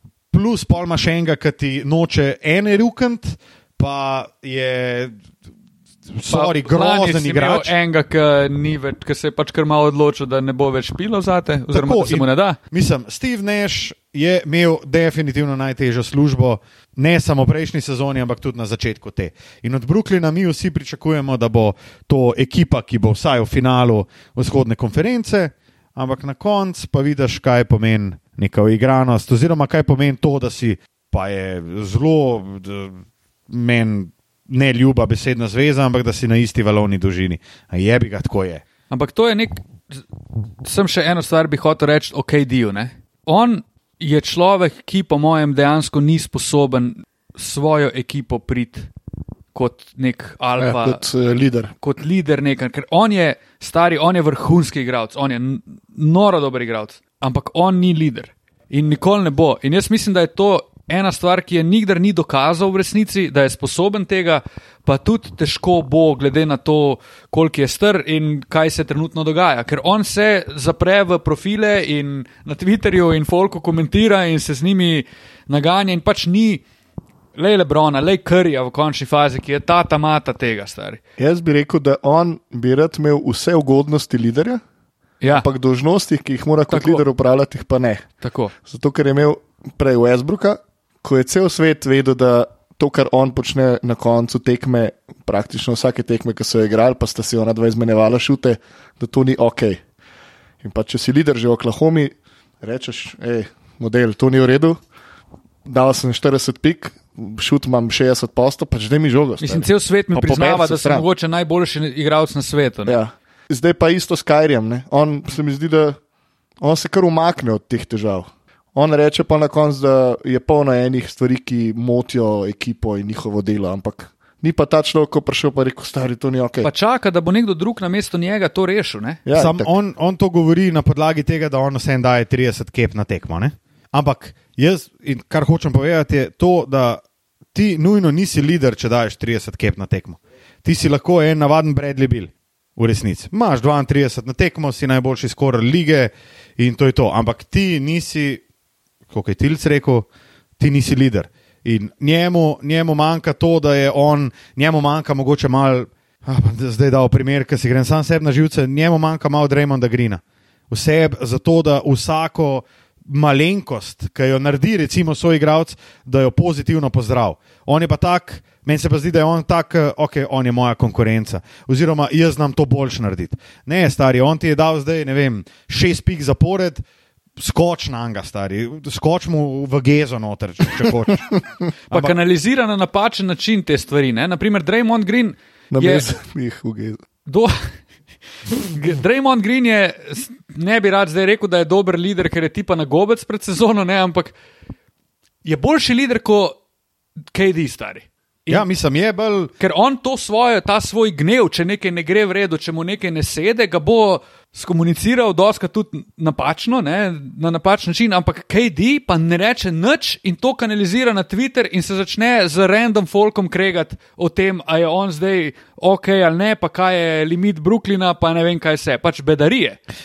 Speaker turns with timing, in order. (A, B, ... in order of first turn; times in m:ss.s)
0:00.3-0:05.1 A
0:06.1-0:07.7 A
0:06.3-0:12.6 B
0:11.7-0:38.6 A
0:38.9-0:40.0 B
0:40.6-0:48.9 B
0:49.5-0:51.0 B
0:50.6-0:51.7 C
0:51.8-1:16.6 B
1:17.4-1:21.0 B
1:21.2-1:24.6 C
1:25.2-1:25.5 B
1:25.3-1:28.0 C
1:26.7-1:27.0 B
1:28.2-1:28.5 B
1:28.6-1:39.8 C
1:40.6-1:44.8 C
1:45.6-1:51.1 C
1:49.4-1:53.0 B
1:52.8-1:56.0 C
1:56.6-2:06.7 C
2:06.6-2:09.2 B
2:09.2-2:09.7 C
2:09.4-2:17.0 A
2:17.5-2:28.4 A
2:29.1-2:30.1 A
2:30.6-2:56.8 A
2:57.4-3:01.4 A
3:01.9-3:02.1 A
3:01.9-3:06.0 B
3:05.7-3:07.0 C
3:07.3-3:07.7 B
3:08.5-3:14.3 B
3:15.4-3:16.6 B
3:17.3-3:18.6 B
3:18.5-3:19.5 A
3:19.6-3:39.8 B